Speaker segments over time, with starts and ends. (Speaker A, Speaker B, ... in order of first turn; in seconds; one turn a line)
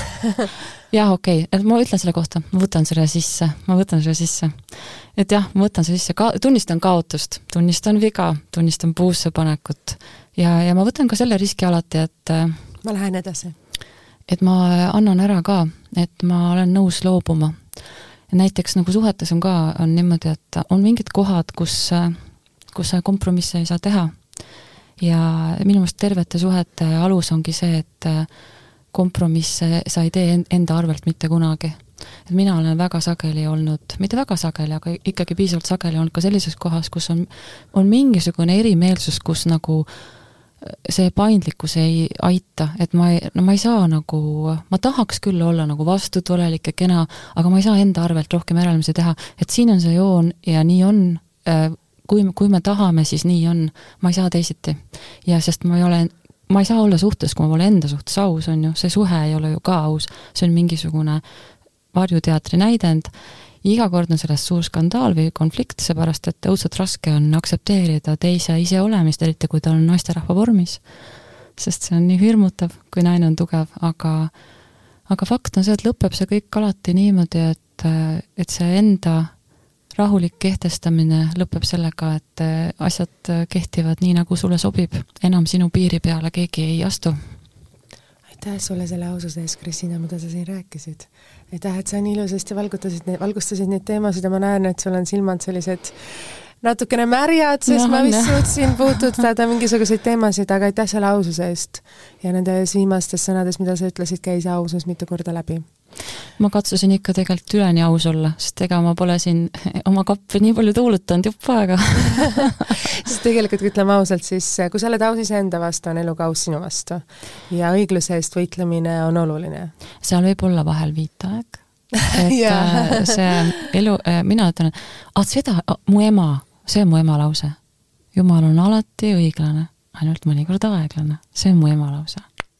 Speaker A: 0.9-12.6
Speaker B: 12.8-13.5
Speaker A: 14.3-17.6
Speaker A: 18.3-22.2
Speaker A: 22.7-24.2
Speaker A: 25.0-28.3
Speaker A: 28.9-39.9
Speaker A: 40.6-61.2
Speaker A: 61.9-70.8
Speaker A: 71.6-74.3
Speaker A: 75.1-79.3
Speaker A: 79.9-87.2
Speaker B: 88.3-96.0
Speaker B: 96.6-105.7
Speaker A: 97.7-99.0
Speaker A: 106.4-112.7
Speaker B: 113.0-119.7
Speaker A: 120.0-127.6
Speaker B: 122.1-123.4
Speaker A: 128.1-132.3